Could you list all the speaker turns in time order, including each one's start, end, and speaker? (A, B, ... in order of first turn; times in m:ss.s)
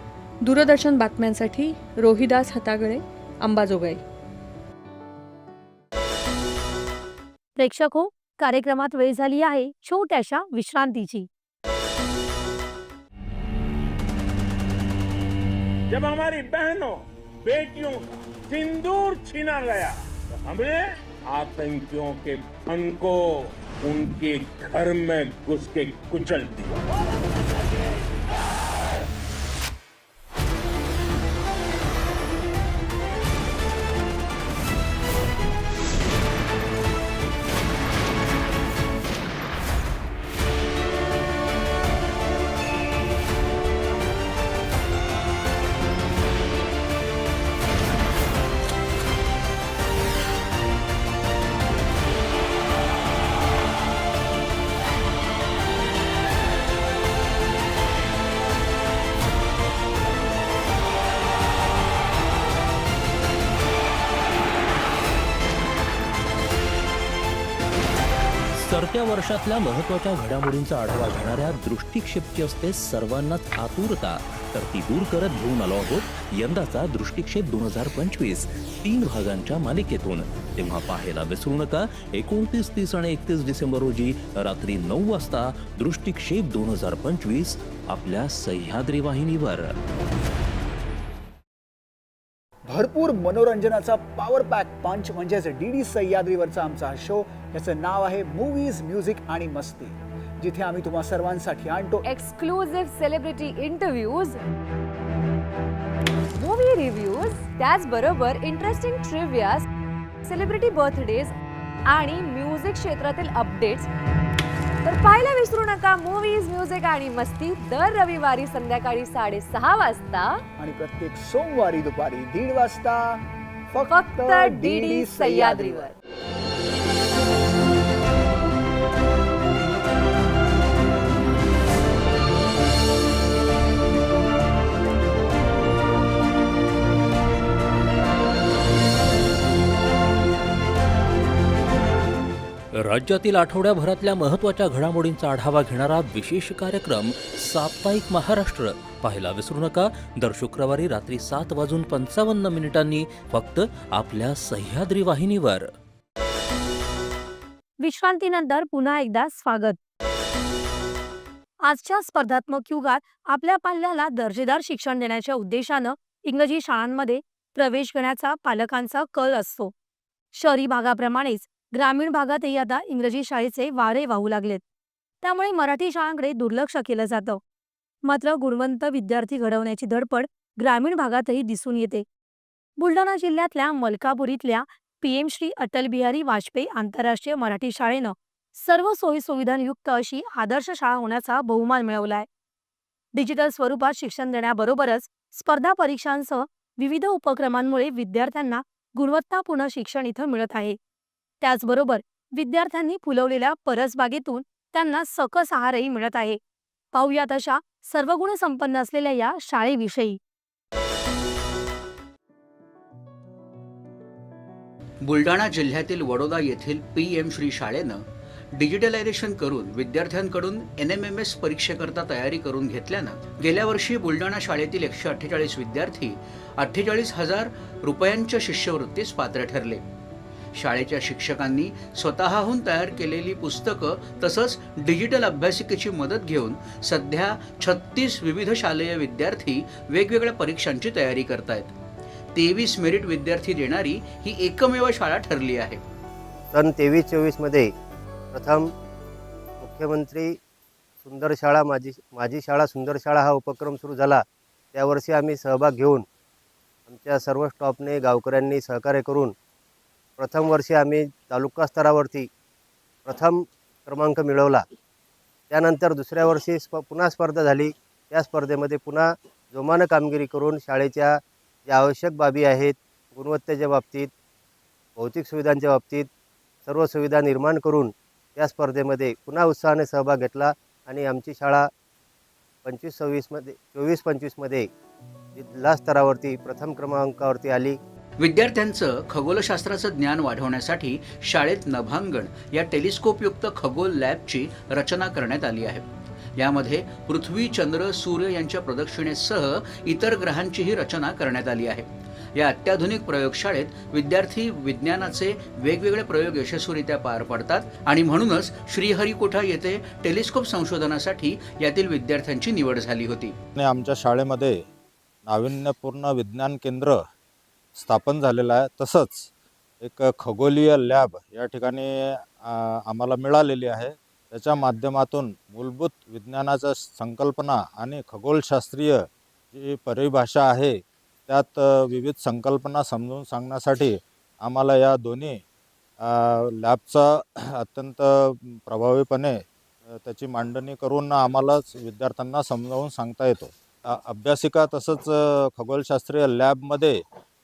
0:00.4-0:04.0 A
0:07.6-0:11.3 B
0:15.9-0:26.8 C
1:08.6-1:29.8 D
1:32.7-1:42.0 E
1:42.0-1:44.4 F
1:46.3-1:49.6 F
1:50.2-1:51.3 F
1:51.9-1:53.9 F
1:54.8-2:00.4 F
2:00.6-2:05.9 E
2:03.9-2:05.9 F
2:22.8-2:35.7 D
2:37.8-2:39.8 B
2:41.6-2:49.7 B
2:50.3-2:54.6 B
2:55.2-2:57.4 B
2:58.0-3:02.0 B
3:02.8-3:12.2 B
3:13.1-3:20.8 B
3:21.4-3:26.4 B
3:26.9-3:30.2 B
3:35.0-3:49.8 G
3:50.5-4:01.7 G
4:02.3-4:05.8 G
4:06.5-4:07.7 H
4:08.3-4:08.7 H
4:09.6-4:10.4 H
4:11.0-4:14.2 H
4:14.7-4:16.0 H
4:16.9-4:19.3 H
4:20.2-4:22.3 H
4:23.0-4:24.6 H
4:25.5-4:34.1 H
4:35.0-4:36.1 H
4:36.6-4:41.7 H
4:42.6-4:44.7 H
4:45.3-4:47.8 H
4:48.2-5:13.4 G
5:13.6-5:14.6 I
5:15.2-5:17.0 I
5:17.7-5:19.3 I
5:19.8-5:35.4 I
5:36.0-5:47.0 I